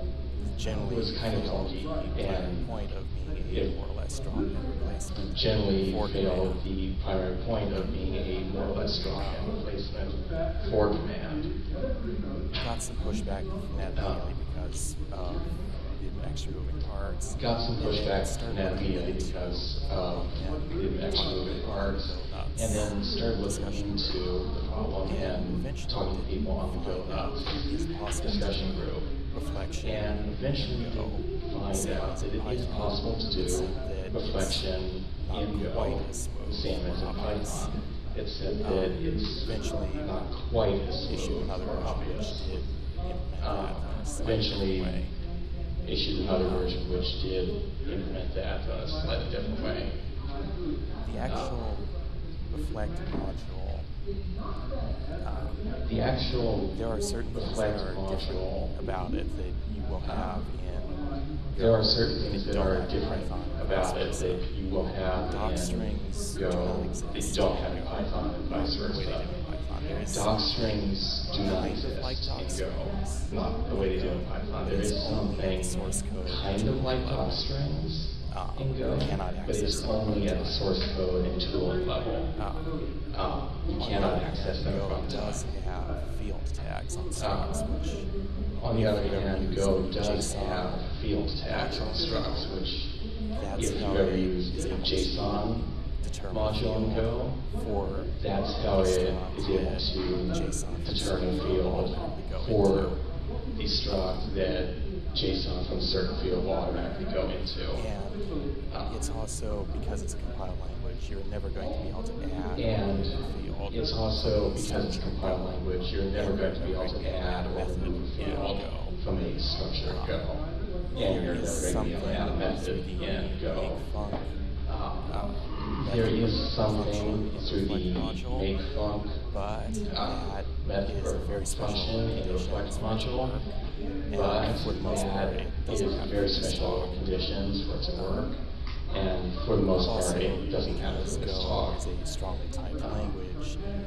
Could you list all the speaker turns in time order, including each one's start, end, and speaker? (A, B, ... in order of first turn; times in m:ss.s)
0:00.5-0:06.7 A
0:00.7-0:02.7 B
0:03.5-0:03.7 B
0:05.3-0:11.5 B
0:09.1-0:09.6 A
0:12.5-0:24.2 A
0:13.9-0:14.4 B
0:17.4-0:29.1 B
0:25.0-0:37.8 A
0:29.8-0:42.6 B
0:38.6-0:40.1 A
0:41.0-0:45.1 A
0:43.4-0:45.0 B
0:45.8-0:50.0 B
0:46.4-0:46.8 A
0:51.0-0:51.9 A
0:51.2-0:51.6 B
0:52.5-0:53.9 A
0:55.2-0:55.7 A
0:55.8-0:56.8 B
0:56.7-1:04.5 A
0:57.3-0:58.7 B
1:00.0-1:00.3 B
1:01.5-1:09.3 B
1:05.3-1:17.5 A
1:10.1-1:22.3 B
1:18.2-1:20.7 A
1:22.3-1:22.9 A
1:23.1-1:25.4 B
1:23.7-1:28.1 A
1:27.2-1:27.7 B
1:28.5-1:32.9 B
1:28.7-1:30.9 A
1:31.4-1:32.5 A
1:33.4-1:38.1 A
1:33.5-1:35.7 B
1:36.3-1:37.4 B
1:38.1-1:42.9 B
1:38.6-1:43.0 A
1:43.6-1:47.8 B
1:43.9-1:44.2 A
1:47.7-1:59.0 A
1:48.7-1:49.0 B
1:52.5-2:03.8 B
1:59.8-2:00.2 A
2:00.9-2:04.4 A
2:04.6-2:09.2 B
2:05.0-2:08.5 A
2:09.3-2:13.6 A
2:09.8-2:13.4 B
2:14.1-2:17.1 A
2:14.1-2:21.8 B
2:17.9-2:18.3 A
2:19.8-2:23.6 A
2:22.8-2:23.1 B